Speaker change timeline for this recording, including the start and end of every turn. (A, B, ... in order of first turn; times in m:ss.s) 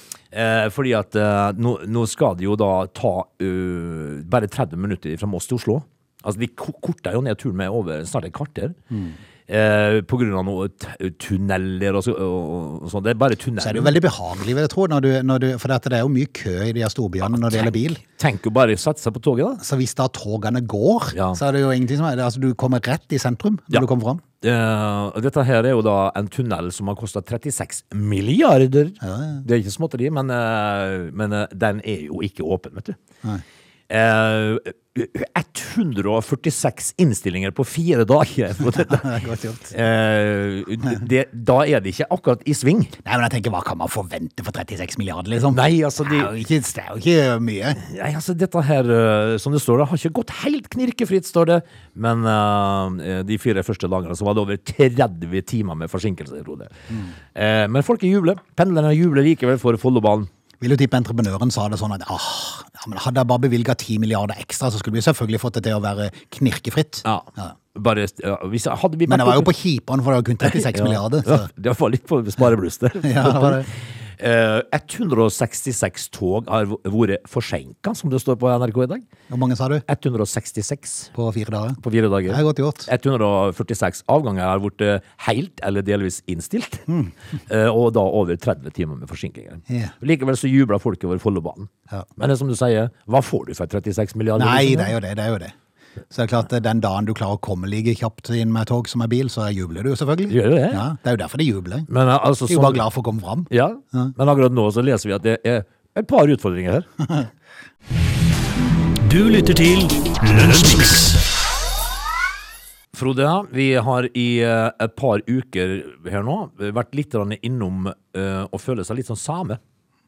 0:00.3-0:08.8 A
0:08.9-0:09.2 B
0:09.5-0:14.0 A
0:13.6-0:18.0 B
0:17.2-0:19.6 A
0:19.6-0:24.2 B
0:21.1-0:21.4 A
0:24.4-0:33.0 A
0:29.0-0:29.4 B
0:33.9-0:39.2 A
0:38.7-0:39.7 B
0:39.7-0:43.0 A
0:43.0-0:47.8 B
0:45.5-0:46.3 A
0:47.8-0:56.7 A
0:57.3-1:00.3 A
1:00.6-1:07.6 B
1:07.0-1:09.5 A
1:09.1-1:11.5 B
1:10.4-1:19.1 A
1:13.0-1:13.7 B
1:19.3-1:19.8 B
1:19.9-1:21.1 A
1:21.1-1:22.9 B
1:21.8-1:26.9 A
1:26.9-1:27.1 B
1:27.5-1:35.0 A
1:29.7-1:29.9 B
1:34.4-1:35.5 B
1:36.1-1:41.9 B
1:40.3-1:40.9 A
1:41.9-1:42.8 A
1:42.4-1:44.1 B
1:43.5-1:46.9 A
1:49.0-1:51.3 C
1:52.9-1:59.6 A